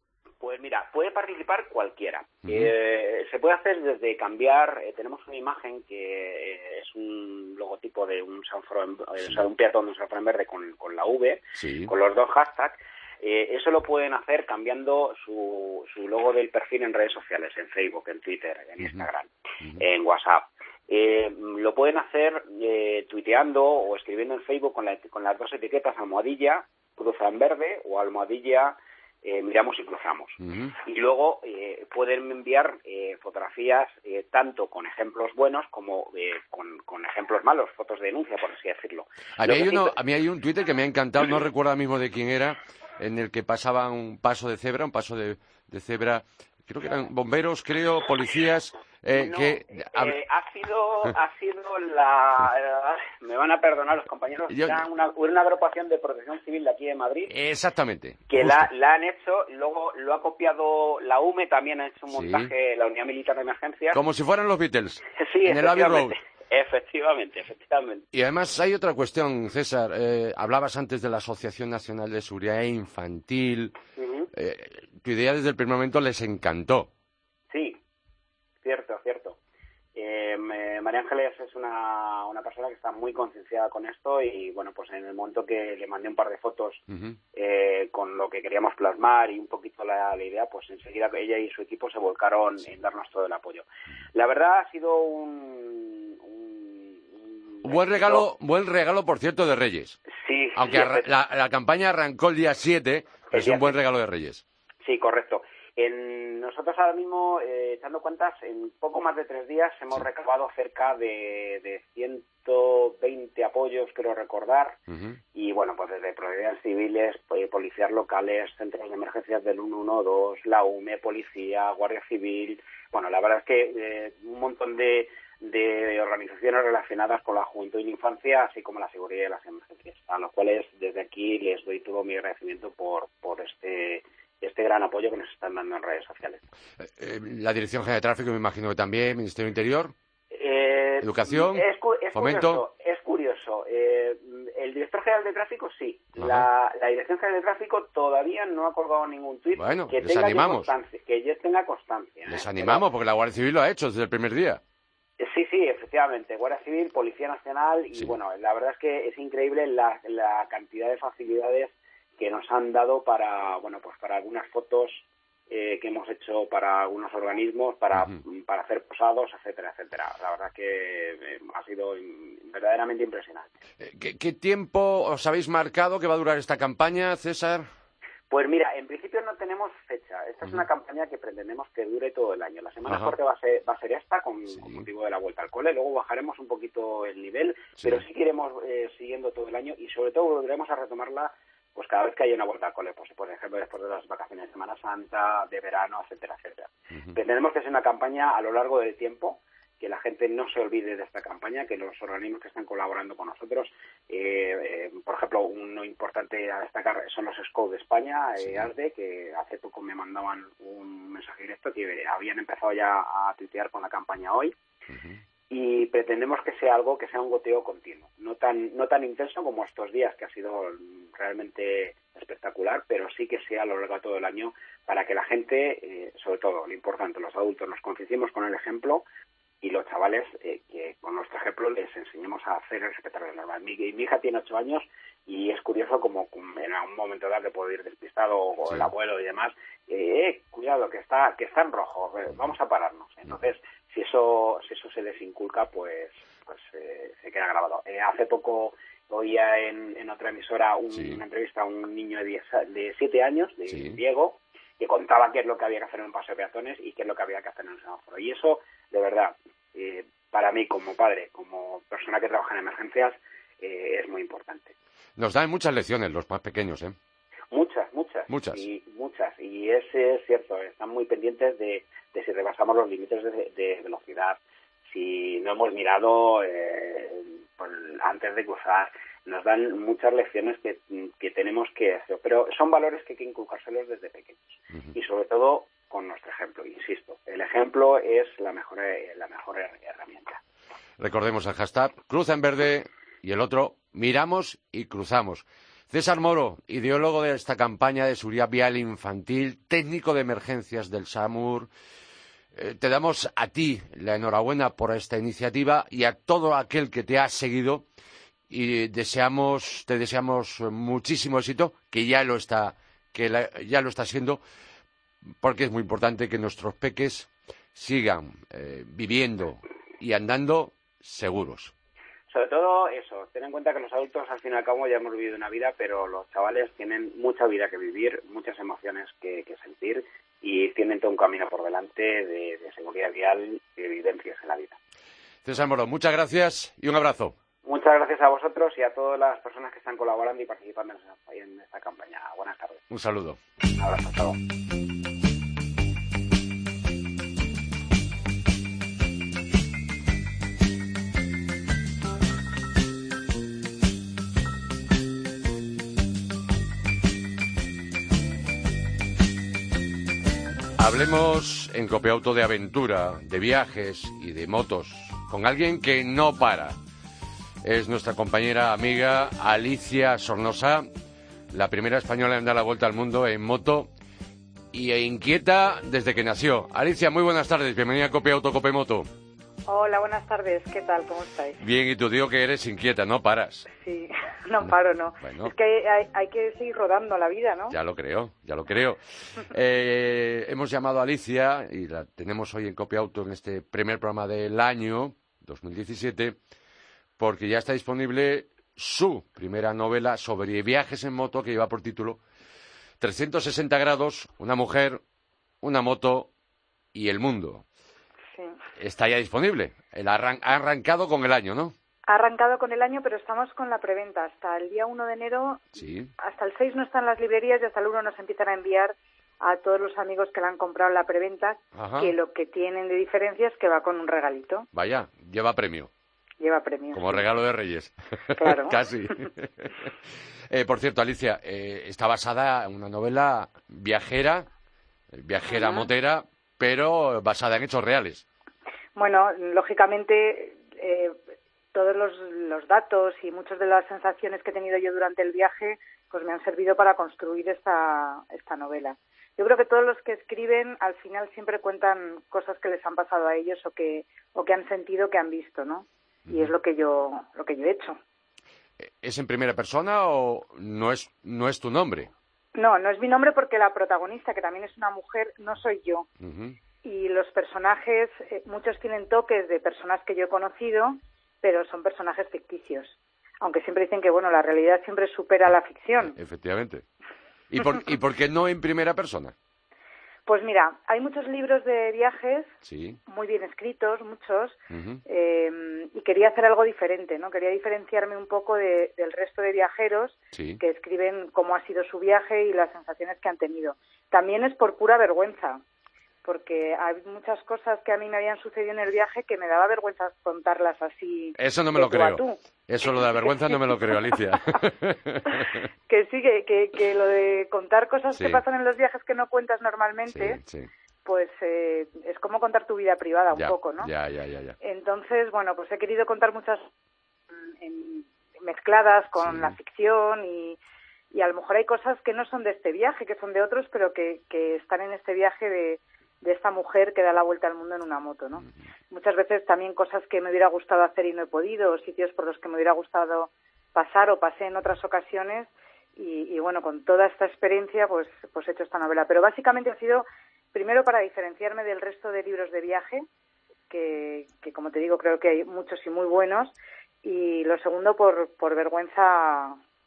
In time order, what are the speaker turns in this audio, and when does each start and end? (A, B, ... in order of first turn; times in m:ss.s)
0:00.4-0:39.9 A
0:02.4-0:02.7 B
0:11.6-0:11.9 B
0:18.8-0:19.1 B
0:30.4-0:30.7 B
0:39.4-0:50.2 B
0:49.1-0:57.3 A
0:54.5-0:54.8 B
0:57.3-0:58.7 B
0:58.3-1:04.0 A
1:02.1-1:02.5 B
1:03.9-1:06.2 B
1:05.2-1:08.0 A
1:08.1-1:13.7 B
1:14.0-1:14.3 A
1:14.3-1:16.9 B
1:17.5-1:17.8 A
1:18.6-1:19.4 A
1:20.0-1:26.8 A
1:27.3-1:38.2 A
1:37.6-1:40.0 B
1:40.1-1:41.0 A
1:40.5-1:44.4 B
1:43.3-1:43.7 A
1:44.8-1:54.8 A
1:54.9-1:55.2 B
1:55.3-2:16.4 A
2:16.8-2:19.9 B
2:20.3-2:32.8 A
2:21.0-2:22.6 B
2:26.2-2:26.5 B
2:29.6-2:30.7 B
2:32.3-2:34.6 B
2:35.2-2:53.5 A
2:53.8-2:57.7 B
2:58.3-3:34.5 A
3:02.9-3:03.1 B
3:04.6-3:04.8 B
3:28.4-3:28.7 B
3:34.9-3:35.2 B
3:35.5-3:49.0 A
3:49.6-4:24.7 A
4:10.9-4:11.2 B
4:13.7-4:14.0 B
4:25.2-4:27.0 B
4:27.5-4:50.4 A
4:28.3-4:28.6 B
4:51.0-5:01.7 B
5:02.5-5:07.8 B
5:08.5-5:14.4 B
5:15.4-5:21.7 B
5:22.3-5:34.8 A
5:35.4-5:37.3 B
5:37.6-5:42.9 A
5:42.9-5:43.4 B
5:43.7-5:44.4 A
6:00.8-6:06.8 B
6:07.6-6:10.9 B
6:11.5-6:13.9 B
6:14.7-6:19.1 B
6:19.7-6:21.6 C
6:21.6-6:23.7 B
6:23.7-6:27.8 C
6:24.7-6:25.5 B
6:27.7-6:36.4 B
6:37.2-6:42.2 B
6:43.0-6:45.0 B
6:45.6-6:46.3 B
6:46.9-6:47.6 B
6:48.8-6:51.7 B
6:52.1-7:04.7 C
6:55.7-6:56.1 B
7:01.7-7:02.1 B
7:04.7-7:05.9 B
7:06.4-7:07.2 C
7:06.9-7:09.9 B
7:08.4-7:08.8 C
7:10.5-7:14.5 B
7:15.1-7:18.2 B
7:15.5-7:15.9 C
7:19.0-7:21.2 C
7:21.7-7:38.0 C
7:36.3-7:36.5 B
7:38.8-7:42.1 B
7:42.6-7:46.1 C
7:46.2-7:46.6 B
7:46.8-7:56.2 C
7:56.0-7:56.8 B
7:57.5-7:59.3 B
8:00.2-8:02.5 C
8:02.6-8:03.0 B
8:03.1-8:15.6 C
8:04.7-8:05.0 B
8:10.3-8:10.6 B
8:16.2-8:24.2 C
8:21.4-8:25.6 B
8:25.9-8:30.4 C
8:28.1-8:28.4 B
8:30.1-8:30.7 B
8:31.0-8:33.9 C
8:33.3-8:34.6 B
8:34.6-8:36.7 C
8:37.6-8:40.6 C
8:39.2-8:39.5 B
8:41.1-9:03.0 C
9:03.7-9:09.6 C